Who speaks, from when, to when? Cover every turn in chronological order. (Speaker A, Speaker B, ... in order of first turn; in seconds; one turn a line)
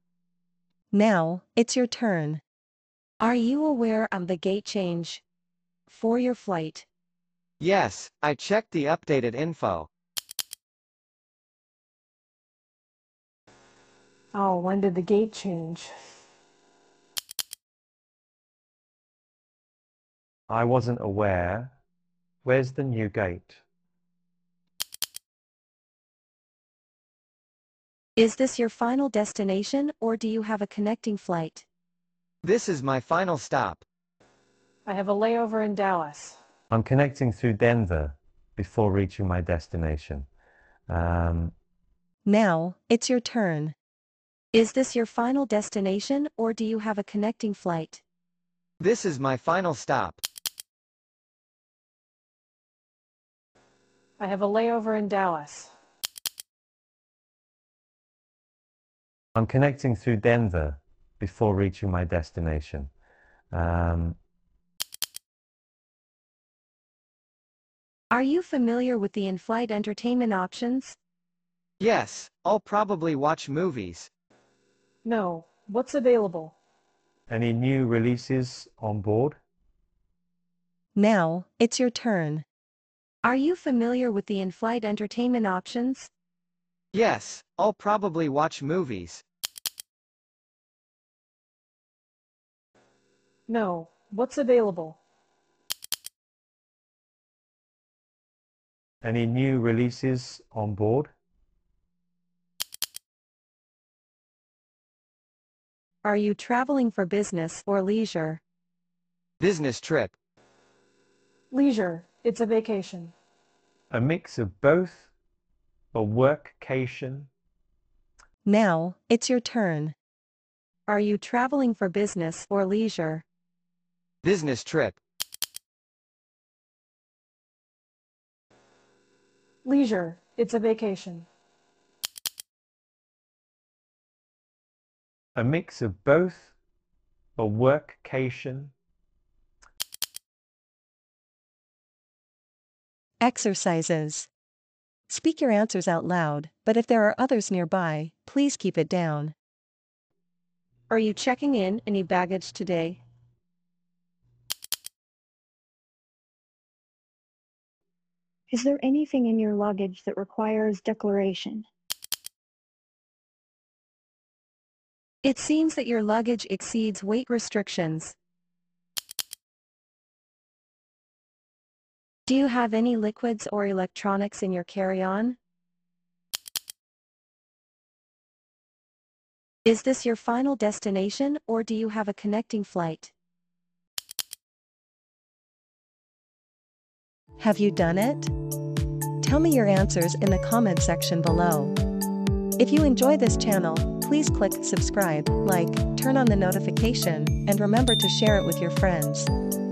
Speaker A: 0.9-2.4
Speaker B: 3.2-5.2
Speaker B: 5.9-6.8
Speaker C: 7.6-9.9
Speaker D: 14.3-15.9
Speaker E: 20.5-21.7
Speaker E: 22.4-23.6
Speaker B: 28.2-31.6
Speaker C: 32.4-33.8
Speaker D: 34.9-36.4
Speaker E: 36.7-40.3
Speaker E: 40.9-41.5
Speaker A: 42.2-43.7
Speaker B: 44.5-48.0
Speaker C: 48.8-50.2
Speaker D: 54.2-55.7
Speaker E: 59.4-62.9
Speaker E: 63.5-64.2
Speaker B: 68.1-71.0
Speaker C: 71.8-74.1
Speaker D: 75.0-76.5
Speaker E: 77.3-79.4
Speaker A: 81.0-82.4
Speaker B: 83.2-86.1
Speaker C: 86.9-89.2
Speaker D: 93.5-95.0
Speaker E: 99.0-101.1
Speaker B: 106.0-108.4
Speaker C: 109.4-110.2
Speaker D: 111.5-113.1
Speaker E: 113.9-115.1
Speaker E: 115.9-117.3
Speaker A: 118.5-119.9
Speaker B: 120.9-123.2
Speaker C: 124.2-125.0
Speaker D: 129.6-131.3
Speaker E: 135.3-136.5
Speaker E: 137.3-138.7
Speaker A: 143.2-144.3
Speaker A: 145.1-149.3
Speaker B: 150.9-153.0
Speaker F: 158.5-161.7
Speaker B: 165.2-168.1
Speaker B: 172.3-175.4
Speaker B: 179.6-183.1
Speaker A: 187.4-188.3
Speaker A: 189.2-191.8
Speaker A: 192.6-199.3